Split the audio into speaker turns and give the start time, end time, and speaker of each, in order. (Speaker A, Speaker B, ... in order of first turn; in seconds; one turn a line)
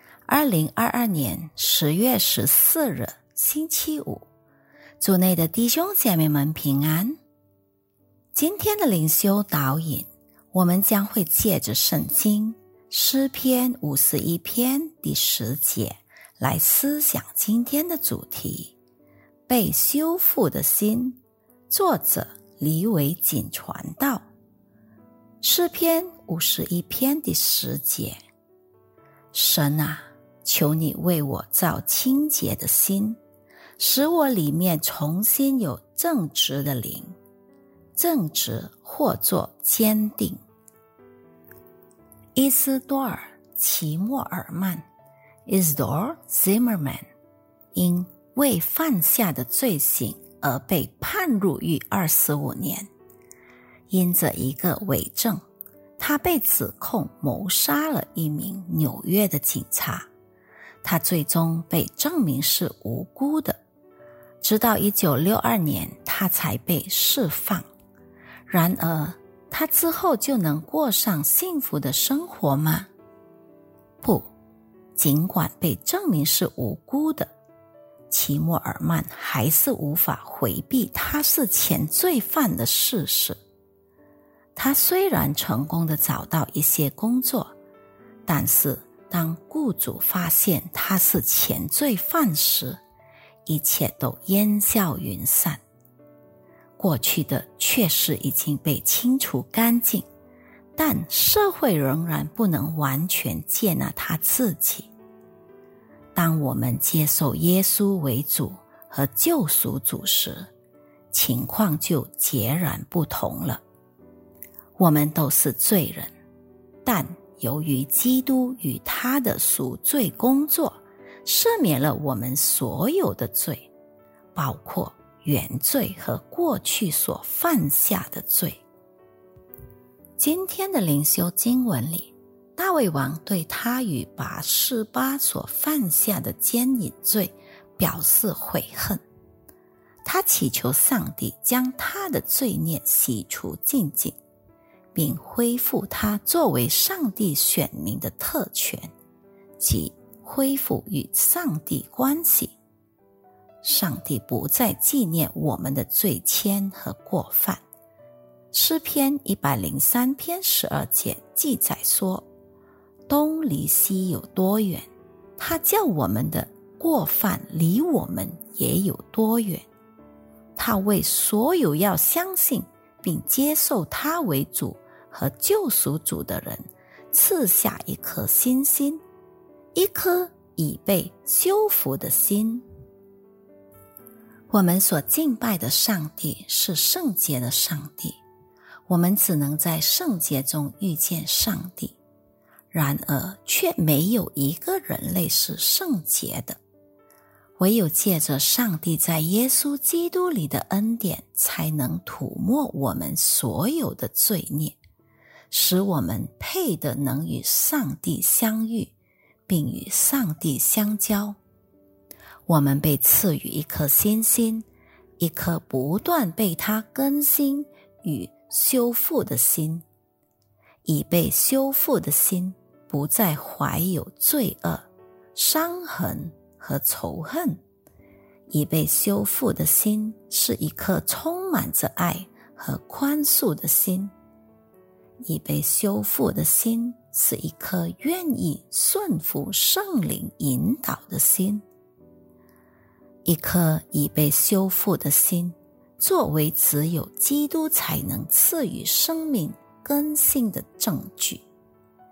Speaker A: 0.2-4.3
Speaker A: 5.0-7.2
Speaker A: 8.3-18.8
Speaker A: 19.5-24.2
Speaker A: 25.4-28.2
Speaker A: 29.3-33.2
Speaker A: 33.8-37.1
Speaker A: 38.0-40.4
Speaker A: 42.3-44.8
Speaker A: 45.5-47.0
Speaker A: 47.7-52.9
Speaker A: 53.9-55.4
Speaker A: 56.0-60.1
Speaker A: 60.8-63.6
Speaker A: 64.4-67.7
Speaker A: 68.5-72.9
Speaker A: 74.0-74.3
Speaker A: 75.0-77.3
Speaker A: 78.1-83.4
Speaker A: 84.6-87.5
Speaker A: 88.2-92.8
Speaker A: 93.5-95.6
Speaker A: 96.8-100.1
Speaker A: 100.8-104.9
Speaker A: 106.2-110.5
Speaker A: 111.1-113.6
Speaker A: 114.8-116.1
Speaker A: 116.8-123.7
Speaker A: 124.3-128.6
Speaker A: 130.2-139.0
Speaker A: 140.0-144.2
Speaker A: 144.9-148.9
Speaker A: 149.6-152.6
Speaker A: 153.6-157.6
Speaker A: 158.5-162.3
Speaker A: 163.1-164.8
Speaker A: 165.4-169.7
Speaker A: 170.5-179.0
Speaker A: 179.7-182.7
Speaker A: 184.5-188.2
Speaker A: 188.9-192.0
Speaker A: 192.7-196.6
Speaker A: 197.6-204.8
Speaker A: 205.5-208.9
Speaker A: 209.5-211.4
Speaker A: 212.5-214.7
Speaker A: 215.2-219.8
Speaker A: 220.8-227.6
Speaker A: 228.5-234.1
Speaker A: 235.2-241.6
Speaker A: 243.2-251.4